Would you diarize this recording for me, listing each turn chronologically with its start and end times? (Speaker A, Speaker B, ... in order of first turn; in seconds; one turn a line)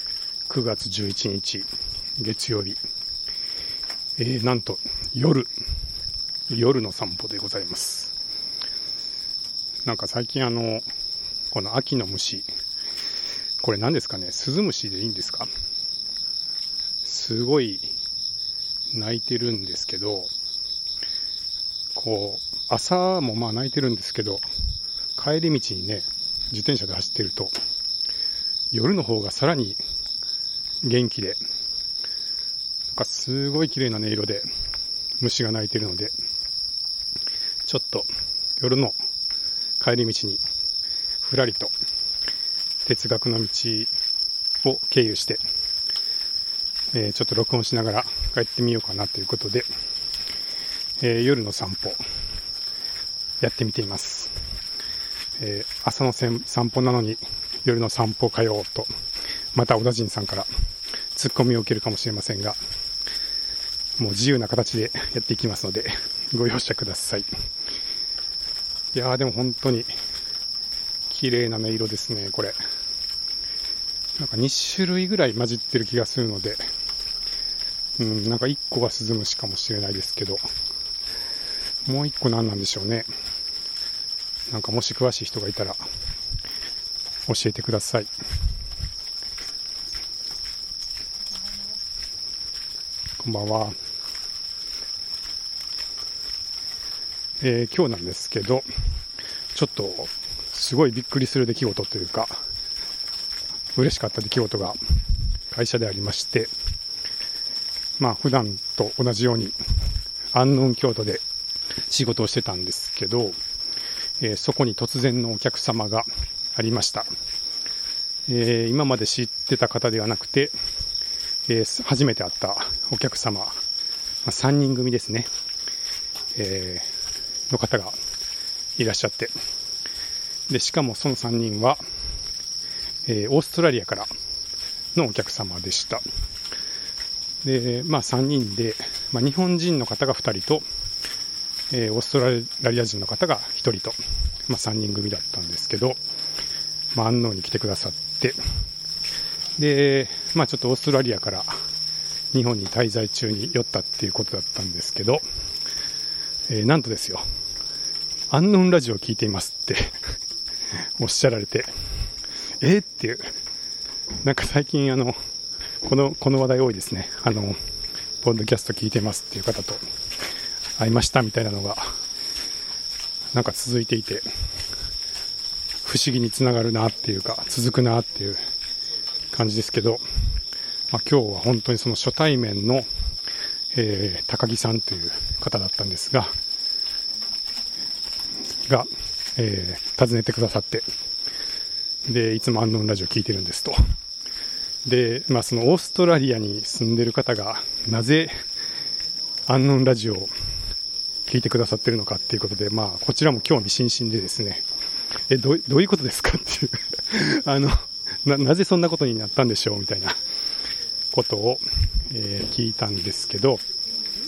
Speaker A: 0.5-2.8
Speaker A: 4.2-5.5
Speaker A: 6.5-8.1
Speaker A: 9.9-10.9
Speaker A: 11.5-12.5
Speaker A: 13.6-15.5
Speaker A: 17.0-17.9
Speaker A: 18.9-20.3
Speaker A: 21.9-24.5
Speaker A: 25.2-27.5
Speaker A: 28.7-29.8
Speaker A: 30.8-31.4
Speaker A: 32.9-34.5
Speaker A: 35.2-36.1
Speaker A: 37.7-39.0
Speaker A: 39.8-40.4
Speaker A: 41.2-41.7
Speaker A: 42.9-43.9
Speaker A: 44.6-45.4
Speaker A: 46.9-49.7
Speaker A: 51.0-52.0
Speaker A: 53.4-54.4
Speaker A: 55.4-58.9
Speaker A: 59.5-60.5
Speaker A: 61.1-62.6
Speaker A: 64.0-67.3
Speaker A: 68.9-69.9
Speaker A: 71.1-72.6
Speaker A: 74.2-76.7
Speaker A: 78.0-80.5
Speaker A: 81.9-83.1
Speaker A: 84.5-85.8
Speaker A: 87.3-88.1
Speaker A: 93.2-93.8
Speaker A: 97.4-98.7
Speaker A: 99.5-102.4
Speaker A: 103.8-104.8
Speaker A: 105.5-106.5
Speaker A: 108.0-109.6
Speaker A: 110.3-111.2
Speaker A: 111.9-113.4
Speaker A: 114.2-117.1
Speaker A: 118.3-120.5
Speaker A: 121.5-123.6
Speaker A: 124.2-125.3
Speaker A: 126.3-126.9
Speaker A: 127.5-128.0
Speaker A: 128.8-129.3
Speaker A: 130.5-131.8
Speaker A: 133.1-134.1
Speaker A: 134.9-136.1
Speaker A: 137.4-140.7
Speaker A: 141.7-146.0
Speaker A: 146.9-148.4
Speaker A: 149.6-151.6
Speaker A: 152.3-155.2
Speaker A: 156.5-157.2
Speaker A: 158.3-160.1
Speaker A: 161.0-161.7
Speaker A: 162.6-163.3
Speaker A: 164.2-165.2
Speaker A: 165.8-167.6
Speaker A: 168.2-169.8
Speaker A: 170.8-171.9
Speaker A: 173.3-174.3
Speaker A: 175.8-178.4
Speaker A: 179.3-180.0
Speaker A: 180.9-182.9
Speaker A: 183.7-186.3
Speaker A: 188.7-190.9
Speaker A: 192.1-193.9
Speaker A: 194.8-198.4
Speaker A: 199.5-200.3
Speaker A: 201.3-204.6
Speaker A: 205.3-210.2
Speaker A: 211.1-213.6